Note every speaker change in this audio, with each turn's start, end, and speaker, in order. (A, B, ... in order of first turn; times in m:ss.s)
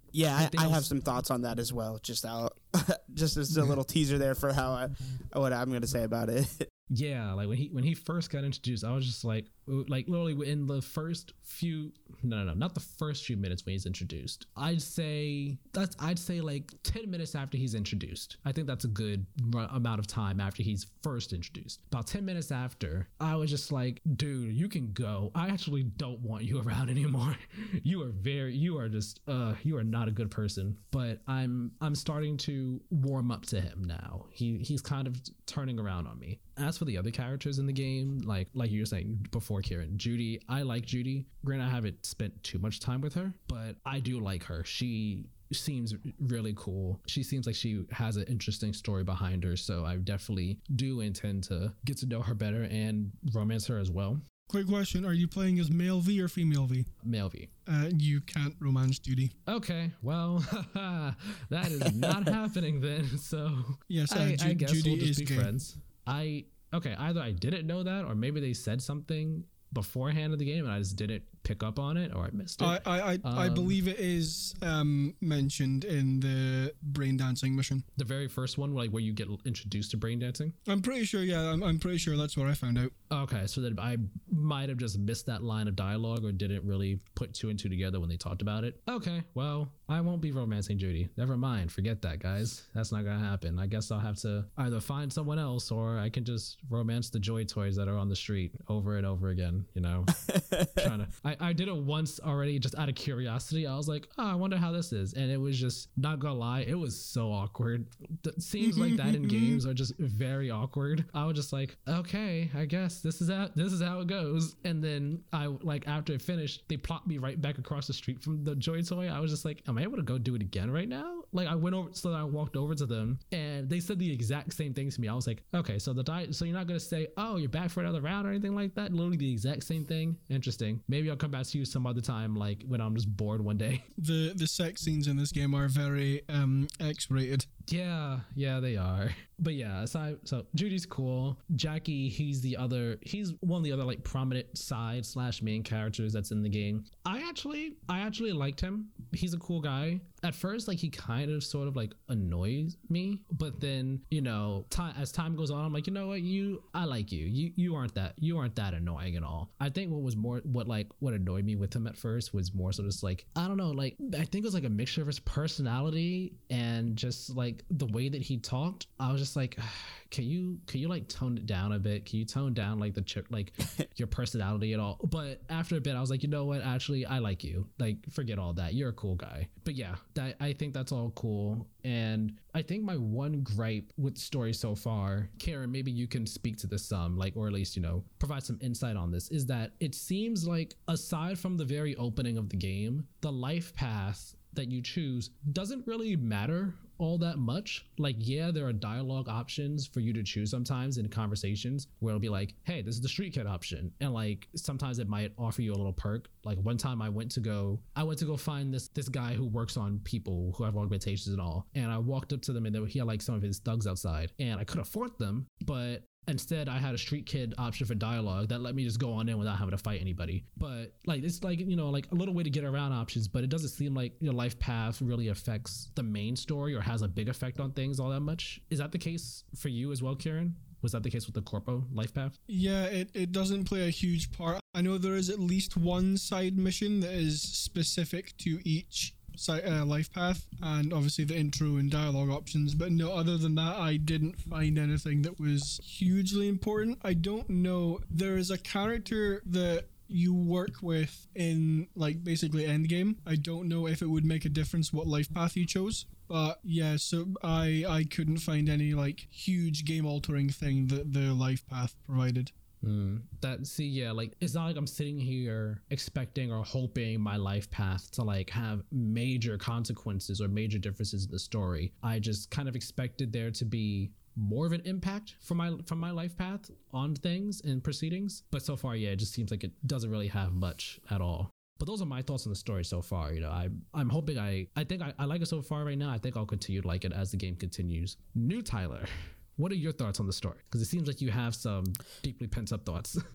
0:00.1-0:06.7 A
0:00.4-0:00.8 B
0:06.9-0:54.2 B
0:54.5-0:56.9 C
0:57.0-0:57.5 B
0:57.7-0:59.4 C
0:59.5-1:13.8 B
1:01.9-1:02.2 A
1:03.9-1:05.5 C
1:12.6-1:17.8 C
1:18.0-1:20.6 B
1:20.7-1:22.9 C
1:23.1-1:40.2 B
1:40.3-1:40.9 A
1:40.8-2:13.8 B
1:48.6-1:49.6 C
2:14.0-2:17.5 C
2:17.7-3:52.4 B
3:52.5-4:22.5 C
4:22.8-4:53.2 B